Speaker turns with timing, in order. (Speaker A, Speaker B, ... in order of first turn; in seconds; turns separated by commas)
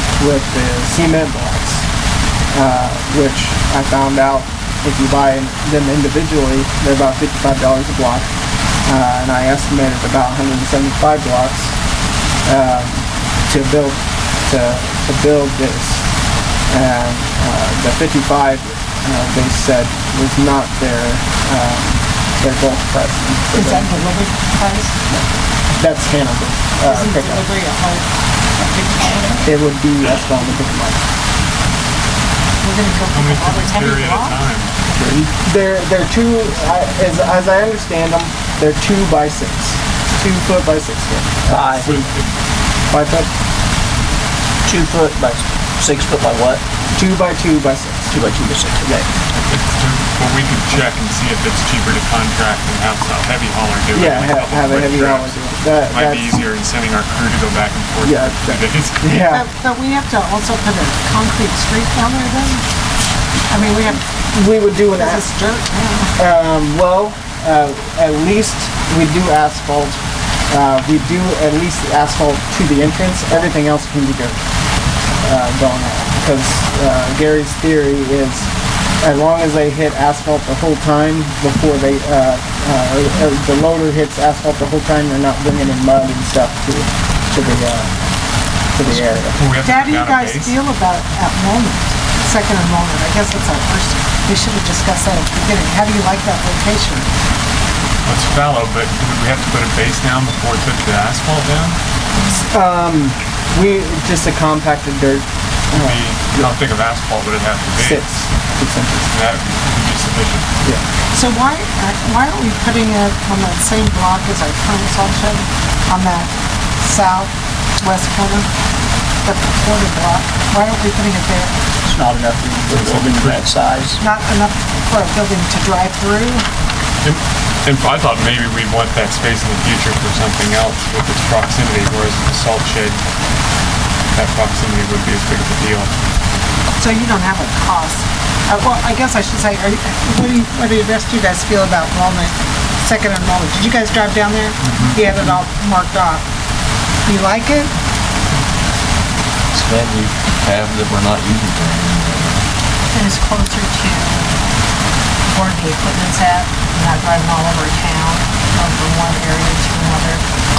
Speaker A: 0.2-1.9, Speaker A: 2.5-8.3, Speaker A: 8.8-11.8, Speaker A: 12.4-16.1, Speaker A: 16.7-24.0, Speaker B: 23.5-24.9, Speaker A: 25.1-27.5, Speaker B: 26.9-29.4, Speaker A: 29.4-31.1, Speaker B: 32.6-34.4, Speaker C: 33.1-34.7, Speaker A: 35.2-42.1, Speaker D: 41.5-41.9, Speaker C: 41.7-42.3, Speaker A: 42.9-43.3, Speaker D: 44.6-46.6, Speaker A: 46.9-48.3, Speaker D: 48.1-49.1, Speaker C: 49.5-55.4, Speaker A: 53.9-56.4, Speaker C: 55.9-59.1, Speaker A: 58.0-59.5, Speaker B: 59.3-62.6, Speaker B: 63.6-64.0, Speaker A: 64.3-65.3, Speaker B: 65.0-66.1, Speaker A: 66.2-70.0, Speaker A: 70.5-74.4, Speaker A: 75.2-78.5, Speaker A: 79.0-87.9, Speaker A: 88.7-89.4, Speaker C: 88.8-90.5, Speaker B: 89.6-97.1, Speaker C: 98.1-101.8, Speaker A: 102.3-106.5, Speaker C: 105.7-108.1, Speaker A: 107.8-109.1, Speaker C: 109.1-110.5, Speaker B: 111.1-118.5, Speaker B: 119.2-121.5, Speaker D: 121.8-124.0, Speaker C: 122.7-123.5, Speaker B: 124.0-126.5, Speaker C: 127.0-133.0, Speaker C: 134.1-135.9, Speaker B: 137.1-146.2, Speaker B: 147.1-147.7, Speaker E: 149.5-151.0, Speaker D: 150.2-152.1, Speaker E: 151.8-152.4, Speaker F: 152.9-154.3, Speaker F: 155.3-160.2